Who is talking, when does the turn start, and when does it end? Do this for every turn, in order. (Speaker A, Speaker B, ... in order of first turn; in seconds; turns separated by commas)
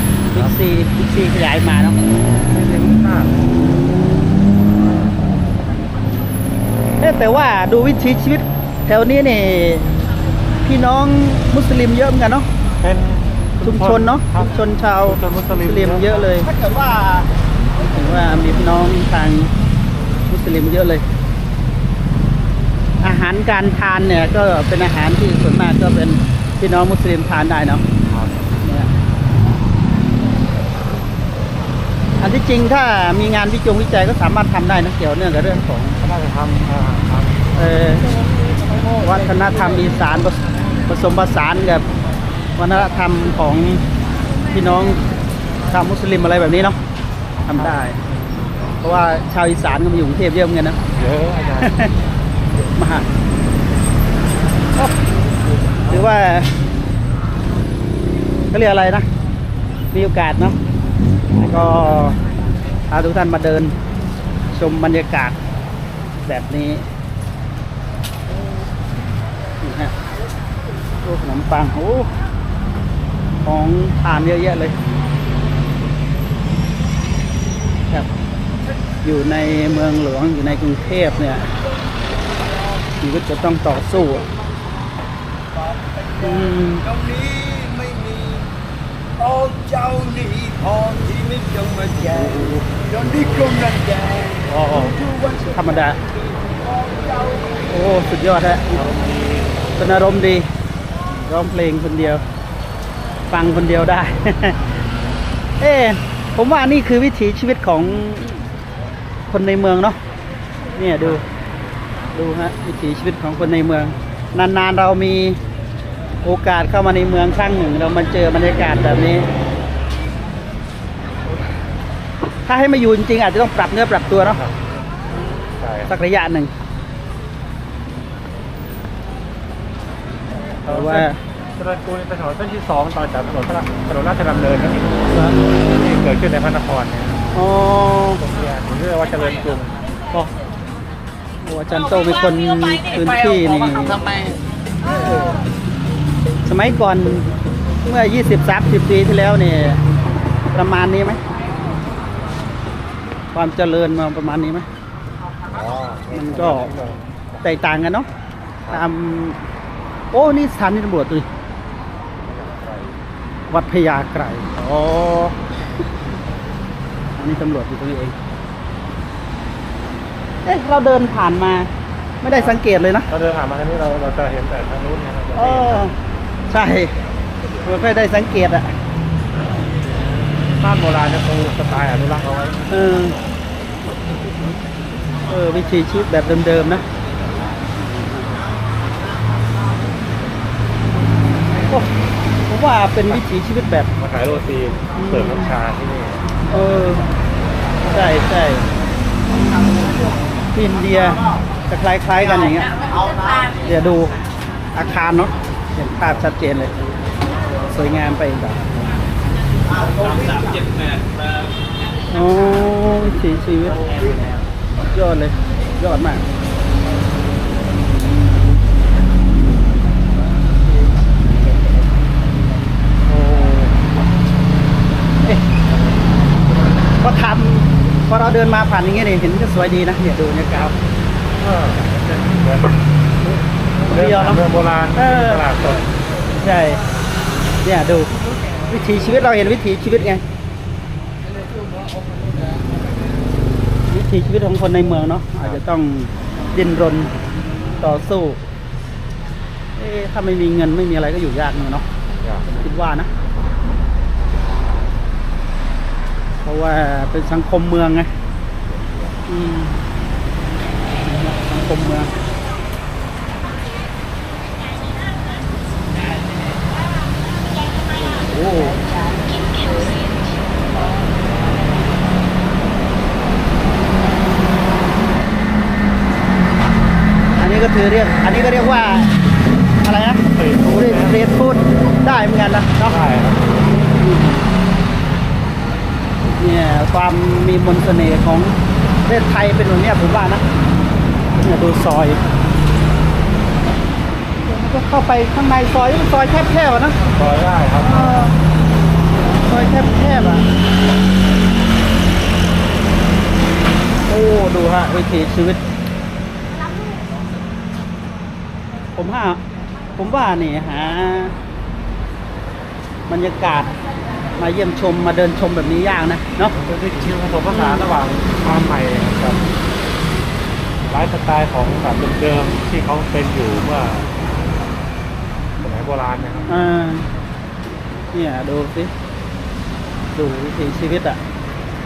Speaker A: 0.3-2.0, Speaker B: 2.5-3.4, Speaker A: 7.0-9.9, Speaker A: 10.6-12.5, Speaker B: 12.8-14.5, Speaker A: 13.6-17.3, Speaker B: 15.0-16.3, Speaker A: 17.8-19.5, Speaker A: 20.3-21.0, Speaker A: 23.0-27.8, Speaker B: 28.1-28.4, Speaker A: 28.6-28.9, Speaker A: 32.2-36.0, Speaker B: 36.0-37.5, Speaker A: 37.6-38.1, Speaker A: 39.0-41.8, Speaker A: 42.6-43.8, Speaker A: 44.5-45.0, Speaker A: 45.7-46.8, Speaker A: 47.5-48.0, Speaker B: 47.5-48.5, Speaker A: 48.8-50.8, Speaker B: 50.9-51.9, Speaker A: 51.6-51.9, Speaker A: 52.7-53.0, Speaker A: 55.9-56.5, Speaker A: 58.5-59.0, Speaker A: 59.9-60.6, Speaker A: 61.4-62.2, Speaker A: 62.9-63.7, Speaker A: 64.5-65.3, Speaker A: 66.2-66.8, Speaker A: 69.6-69.9, Speaker A: 71.0-72.1, Speaker A: 73.4-74.8, Speaker A: 79.0-81.5, Speaker A: 83.0-84.3, Speaker C: 85.6-86.2, Speaker A: 86.2-86.8, Speaker C: 86.9-88.5, Speaker C: 89.2-91.9, Speaker B: 92.0-93.7, Speaker C: 93.7-94.4, Speaker B: 94.5-95.0, Speaker C: 95.1-95.5, Speaker A: 95.5-96.0, Speaker C: 96.1-97.5, Speaker A: 97.7-98.8, Speaker B: 98.7-99.8, Speaker A: 99.8-100.5, Speaker A: 101.1-102.2, Speaker A: 103.3-104.5, Speaker A: 105.6-108.4, Speaker A: 109.3-110.0, Speaker A: 110.8-111.2, Speaker A: 112.1-115.4, Speaker A: 116.2-119.3, Speaker A: 122.4-124.4, Speaker B: 124.1-124.6, Speaker B: 125.6-125.9, Speaker A: 125.9-126.5, Speaker B: 130.6-137.2, Speaker A: 130.7-131.2, Speaker A: 137.3-138.2, Speaker B: 138.2-140.3, Speaker A: 141.4-144.1, Speaker A: 146.4-147.3, Speaker A: 147.8-149.8, Speaker A: 150.5-151.2, Speaker A: 153.3-154.7, Speaker B: 155.5-157.1, Speaker A: 156.1-156.7, Speaker A: 157.4-158.1, Speaker A: 158.7-159.4, Speaker A: 160.1-161.2, Speaker B: 162.3-162.9, Speaker A: 163.5-165.3, Speaker A: 167.2-168.1, Speaker A: 170.4-171.7, Speaker A: 172.2-173.1, Speaker B: 173.1-175.9, Speaker A: 175.3-175.9, Speaker A: 176.5-176.9, Speaker A: 177.6-178.7, Speaker B: 180.5-182.6, Speaker A: 182.7-183.2, Speaker A: 185.3-186.8, Speaker A: 191.6-191.9, Speaker A: 192.5-193.9, Speaker B: 194.0-196.3, Speaker A: 194.9-195.5, Speaker A: 196.5-197.1, Speaker A: 197.9-198.6, Speaker A: 200.5-202.8, Speaker A: 203.6-204.2, Speaker A: 204.7-206.7, Speaker A: 207.7-208.6, Speaker A: 212.1-213.9, Speaker A: 214.8-216.2, Speaker B: 223.1-223.8, Speaker A: 227.0-230.8, Speaker B: 231.4-235.9, Speaker A: 233.8-234.4, Speaker A: 235.0-235.4, Speaker A: 236.3-236.8, Speaker A: 237.6-238.1, Speaker A: 238.7-240.2, Speaker A: 243.9-247.1, Speaker A: 247.8-248.4, Speaker A: 249.8-251.8, Speaker B: 252.2-252.5, Speaker A: 252.5-253.1, Speaker A: 256.4-258.1, Speaker B: 258.7-259.1, Speaker A: 259.3-259.8, Speaker A: 261.0-262.1, Speaker A: 267.9-268.8, Speaker A: 277.4-279.1, Speaker A: 279.8-283.0, Speaker B: 280.3-281.2, Speaker B: 282.8-283.7, Speaker A: 284.0-284.4, Speaker A: 286.4-290.4, Speaker A: 291.4-292.2, Speaker A: 294.4-297.0, Speaker B: 297.1-298.2, Speaker A: 297.8-298.4, Speaker A: 299.4-300.5, Speaker A: 304.1-305.6, Speaker A: 308.9-309.4, Speaker A: 310.0-311.4, Speaker A: 313.1-313.7, Speaker A: 314.4-316.6, Speaker B: 316.5-319.5, Speaker A: 317.5-317.8, Speaker B: 320.9-324.1, Speaker B: 325.6-326.6, Speaker A: 326.5-327.1, Speaker A: 328.1-328.9, Speaker A: 330.1-331.2